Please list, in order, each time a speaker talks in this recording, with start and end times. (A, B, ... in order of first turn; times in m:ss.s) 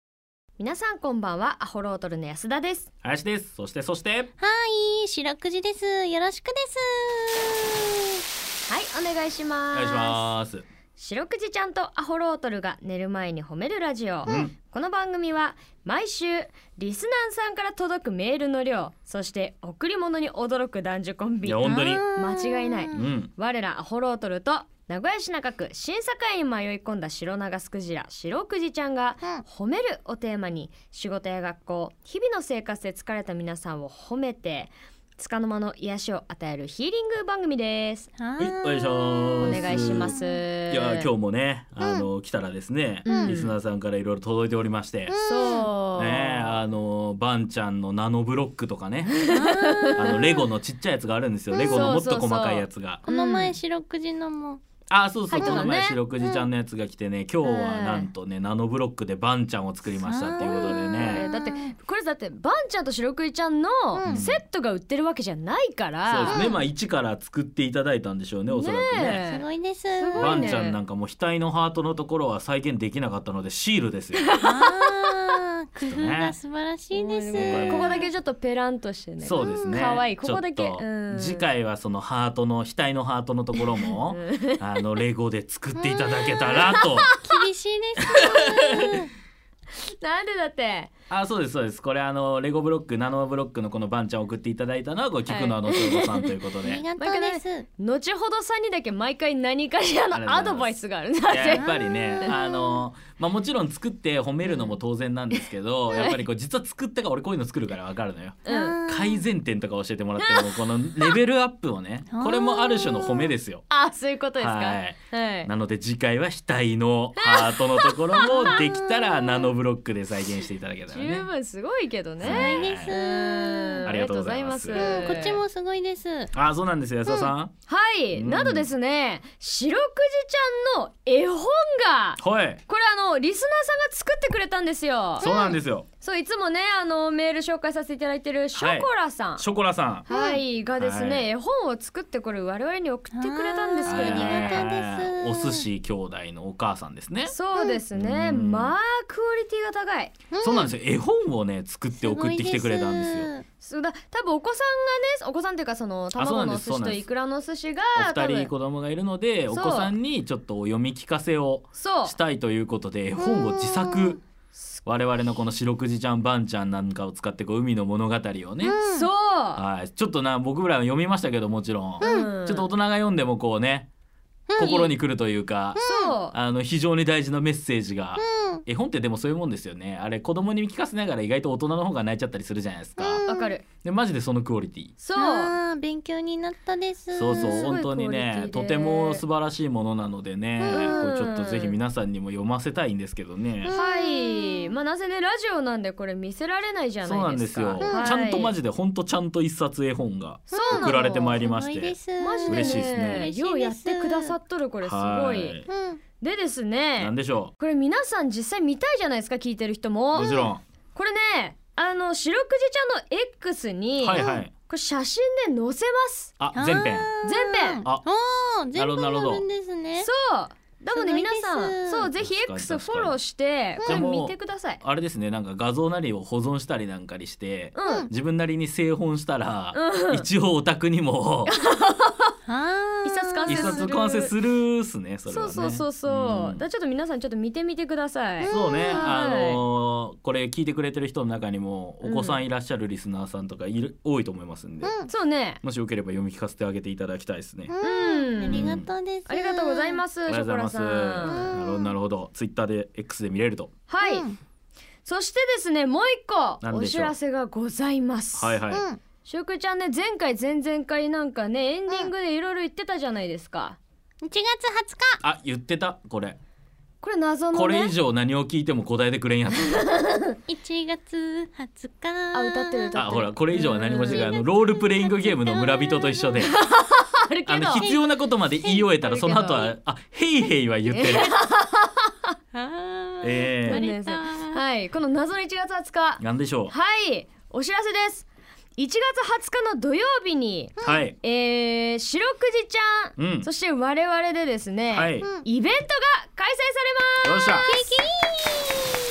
0:00.6-0:02.9 A
0:03.0-0:04.3 B
0:04.4-0:08.2 C
0:08.7-0:10.3 A
0:09.7-0:10.6 B
0:11.0-0:38.1 A
0:14.2-0:14.5 B
0:21.4-0:22.0 B
0:21.6-0:23.1 C
0:22.9-0:23.3 B
0:38.2-0:40.4 C
0:38.4-0:40.2 B
0:39.4-0:41.1 A
0:40.7-0:45.1 B
0:41.8-0:42.1 C
0:43.0-0:43.6 A
0:43.1-0:43.4 C
0:45.1-0:45.7 C
0:45.2-0:46.6 A
0:46.0-0:49.3 B
0:49.1-0:50.4 A
0:49.3-0:50.0 C
0:50.0-0:53.0 B
0:51.5-0:51.9 C
0:51.6-0:53.6 A
0:53.1-0:54.6 C
0:54.9-1:01.3 B
0:55.3-0:56.0 A
0:55.3-0:55.7 C
0:57.4-0:58.1 A
1:00.0-1:01.7 C
1:00.4-1:06.6 A
1:04.0-1:04.2 C
1:04.0-1:04.4 B
1:06.0-1:09.2 B
1:06.3-1:06.5 C
1:08.5-1:09.4 A
1:09.0-1:10.6 C
1:10.0-1:10.8 A
1:10.2-1:14.3 B
1:14.3-1:15.3 A
1:14.4-1:18.1 C
1:15.8-1:16.3 B
1:16.9-1:21.4 A
1:17.3-1:18.0 B
1:19.2-1:27.1 B
1:19.3-1:19.8 C
1:24.1-1:24.6 A
1:25.8-1:26.6 C
1:26.5-1:27.3 A
1:27.2-1:29.1 C
1:28.0-1:28.9 B
1:28.2-1:28.8 A
1:29.7-1:30.9 A
1:31.1-1:36.8 B
1:35.3-1:36.3 A
1:36.6-1:37.7 C
1:37.0-1:42.4 A
1:40.1-1:40.7 B
1:41.3-1:53.6 B
1:41.6-1:42.8 C
1:44.4-1:44.8 A
1:45.9-1:46.2 A
1:48.4-1:48.8 A
1:48.4-1:49.2 C
1:50.2-1:50.6 A
1:52.1-1:53.3 C
1:53.7-1:55.5 A
1:54.4-2:01.3 B
1:57.2-1:59.5 A
2:00.9-2:05.4 A
2:02.2-2:02.9 B
2:02.2-2:04.0 C
2:03.8-2:05.1 B
2:04.7-2:06.3 C
2:06.3-2:07.5 B
2:07.7-2:19.5 A
2:08.1-2:08.7 B
2:12.2-2:12.6 B
2:15.2-2:15.5 C
2:15.2-2:15.8 B
2:18.5-2:20.1 B
2:20.1-2:24.7 A
2:20.1-2:20.4 C
2:20.8-2:21.3 B
2:23.1-2:25.6 C
2:23.8-2:27.3 B
2:27.2-2:30.2 A
2:27.6-2:27.8 C
2:27.9-2:28.8 B
2:30.3-2:30.7 C
2:30.4-2:33.3 B
2:32.0-2:33.4 C
2:33.6-2:38.5 A
2:36.2-2:37.1 B
2:37.9-2:44.2 B
2:39.5-2:39.9 A
2:41.8-2:42.2 A
2:43.2-2:44.2 C
2:44.8-2:48.8 B
2:48.6-2:49.1 C
2:48.8-2:49.6 A
2:49.6-2:53.9 B
2:52.0-2:52.3 C
2:52.0-2:52.7 A
2:54.5-2:54.9 C
2:54.6-3:03.2 B
2:54.6-2:54.9 A
2:55.8-2:56.2 C
2:55.8-2:56.3 A
2:58.2-2:58.6 C
3:03.0-3:03.6 C
3:03.2-3:03.6 A
3:03.8-3:04.9 B
3:05.0-3:05.5 A
3:05.2-3:07.7 C
3:07.1-3:13.7 B
3:07.3-3:09.2 A
3:10.6-3:11.0 C
3:10.7-3:11.8 A
3:13.6-3:14.7 C
3:13.7-3:18.5 A
3:17.0-3:23.3 B
3:17.8-3:18.2 C
3:20.5-3:24.4 C
3:20.5-3:21.4 A
3:22.2-3:25.6 A
3:24.8-3:25.7 B
3:25.7-3:26.0 C
3:26.2-3:36.4 A
3:27.0-3:27.5 B
3:30.1-3:30.6 B
3:34.0-3:34.5 B
3:34.2-3:34.4 C
3:36.4-3:37.1 B
3:36.5-3:40.1 C
3:37.2-3:37.8 A
3:38.8-3:39.4 B
3:40.0-3:44.8 A
3:40.9-3:42.1 C
3:42.2-3:43.2 B
3:43.8-3:51.6 B
3:47.8-3:48.1 A
3:49.7-3:50.2 A
3:51.5-3:52.3 A
3:52.5-3:53.8 C
3:53.0-3:54.3 A
3:53.5-3:56.6 B
3:55.3-3:59.6 A
3:58.4-3:59.2 C
3:58.5-4:04.9 B
4:02.0-4:02.4 A
4:04.8-4:05.1 C
4:05.1-4:05.6 A
4:05.6-4:07.7 B
4:07.7-4:10.0 C
4:07.8-4:08.7 A
4:08.4-4:08.9 B
4:09.3-4:11.5 A
4:10.3-4:13.7 B
4:11.2-4:11.9 C
4:13.9-4:14.3 A
4:14.0-4:14.4 C
4:15.0-4:18.6 A
4:16.6-4:17.1 B
4:18.4-4:18.8 B
4:18.7-4:19.0 C
4:19.2-4:23.8 A
4:24.2-4:25.2 C
4:25.2-4:26.4 B
4:27.0-4:27.9 A
4:27.5-4:29.9 B
4:29.7-4:30.4 A
4:30.5-4:36.4 C
4:32.3-4:34.3 A
4:32.9-4:36.5 B
4:36.4-4:37.9 A
4:37.4-4:41.3 B
4:37.8-4:38.9 C
4:38.9-4:39.7 A
4:40.9-4:42.4 A
4:42.5-4:44.6 C
4:43.2-4:43.9 B
4:43.6-4:58.9 A
4:46.2-4:46.7 B
4:50.8-4:51.0 C
4:50.8-4:51.2 B
4:53.2-4:53.5 B
4:54.9-4:55.3 B
4:55.2-4:55.4 C
4:57.2-4:57.7 B
4:57.6-4:58.4 C